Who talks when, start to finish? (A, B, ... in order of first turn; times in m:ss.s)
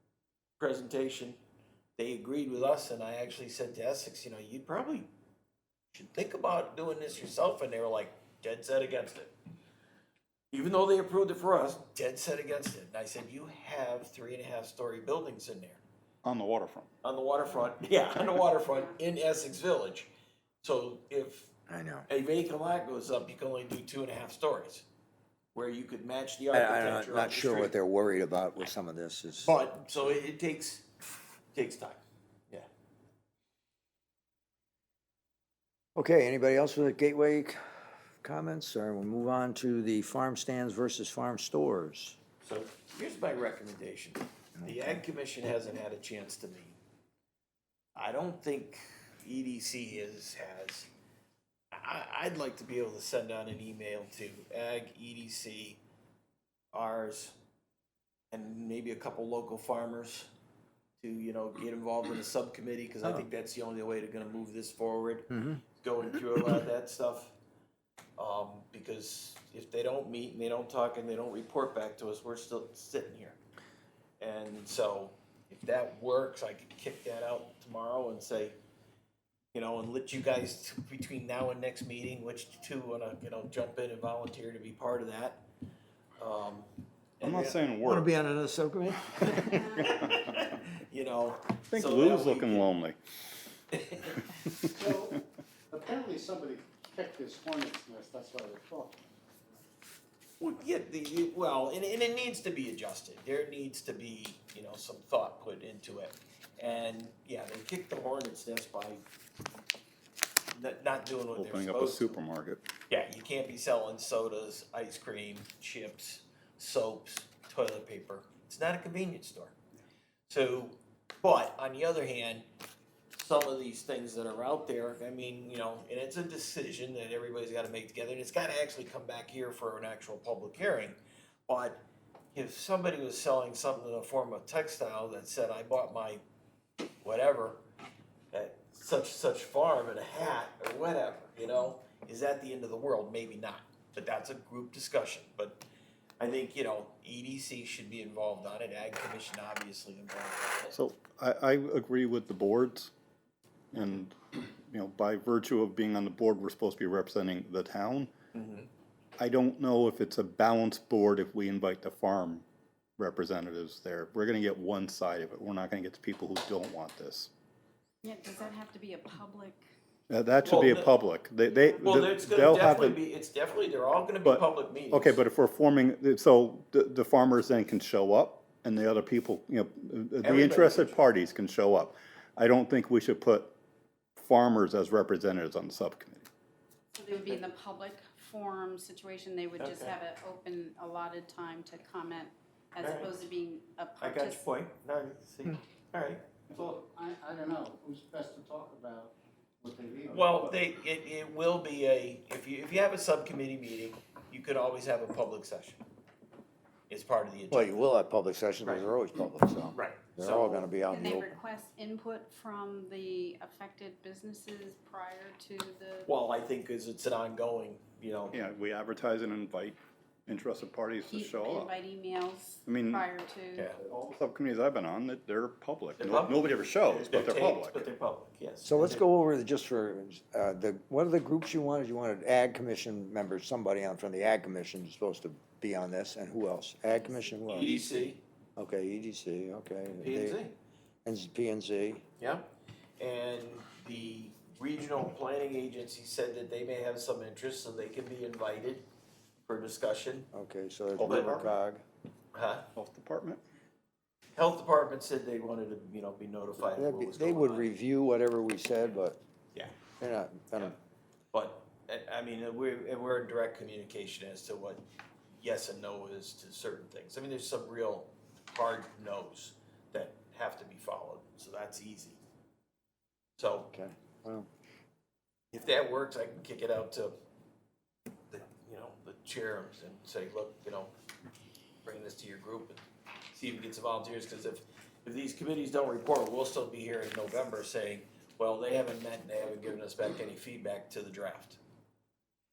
0:00.6-0:01.4 A
0:02.0-0:05.1 A
0:05.9-0:09.3 A
0:10.5-0:15.8 A
0:16.2-0:16.9 B
0:17.0-0:20.1 A
0:20.6-0:21.5 A
0:21.7-0:22.1 C
0:22.1-0:24.8 A
0:25.5-0:27.7 A
0:26.5-0:29.6 C
0:29.4-0:30.9 A
0:31.5-0:32.7 A
0:36.0-0:37.6 C
0:38.2-0:42.2 C
0:42.4-0:46.8 A
0:48.0-0:50.9 A
0:51.7-0:55.8 A
0:56.7-0:57.4 A
0:58.3-1:00.3 A
1:01.0-1:07.3 A
1:05.3-1:05.6 C
1:08.2-1:13.4 A
1:14.2-1:18.6 A
1:19.5-1:25.4 A
1:26.2-1:26.7 A
1:27.2-1:27.6 A
1:27.2-1:28.1 B
1:27.8-1:29.7 C
1:29.2-1:32.7 A
1:29.7-1:30.4 B
1:31.7-1:33.0 B
1:33.7-1:34.2 A
1:34.2-1:34.7 B
1:34.7-1:35.2 D
1:35.7-1:39.0 D
1:40.4-1:49.0 A
1:50.5-1:52.2 A
1:51.4-1:52.6 B
1:52.9-1:59.5 A
2:00.3-2:02.4 A
2:03.1-2:11.0 A
2:11.5-2:16.2 A
2:17.0-2:17.6 A
2:18.3-2:25.6 A
2:26.2-2:30.8 A
2:30.7-2:32.9 B
2:33.7-2:38.1 B
2:38.3-2:38.7 A
2:39.2-2:42.4 B
2:43.0-2:47.3 B
2:48.0-2:49.6 E
2:50.1-2:53.0 B
2:50.4-2:50.9 A
2:51.8-2:55.2 A
2:54.2-3:03.5 B
3:00.2-3:01.0 A
3:04.2-3:06.3 B
3:06.9-3:14.5 E
3:09.6-3:09.9 A
3:12.8-3:13.1 A
3:14.0-3:16.2 A
3:16.5-3:20.6 D
3:20.1-3:25.8 A
3:26.9-3:27.8 A
3:27.5-3:31.4 C
3:29.7-3:30.7 A
3:30.9-3:36.1 E
3:36.0-3:38.4 A
3:38.3-3:41.7 B
3:41.1-3:43.7 E
3:42.6-3:43.1 B
3:43.8-3:47.8 B
3:46.0-3:49.0 A
3:48.6-3:57.8 C
3:57.4-3:58.2 A
3:58.6-4:00.4 C
4:00.0-4:00.5 A
4:01.0-4:02.0 C
4:02.2-4:08.8 A
4:09.4-4:10.3 A
4:10.3-4:11.8 C
4:11.0-4:11.5 B
4:11.0-4:11.3 A
4:12.3-4:12.7 A
4:12.8-4:13.4 B
4:14.4-4:17.7 A
4:16.7-4:19.2 C
4:20.0-4:20.7 C
4:21.3-4:24.8 A
4:25.4-4:32.2 A
4:33.4-4:33.7 A
4:33.7-4:34.5 C
4:35.5-4:37.2 A
4:38.3-4:40.9 A
4:41.8-4:42.8 A
4:43.3-4:51.6 A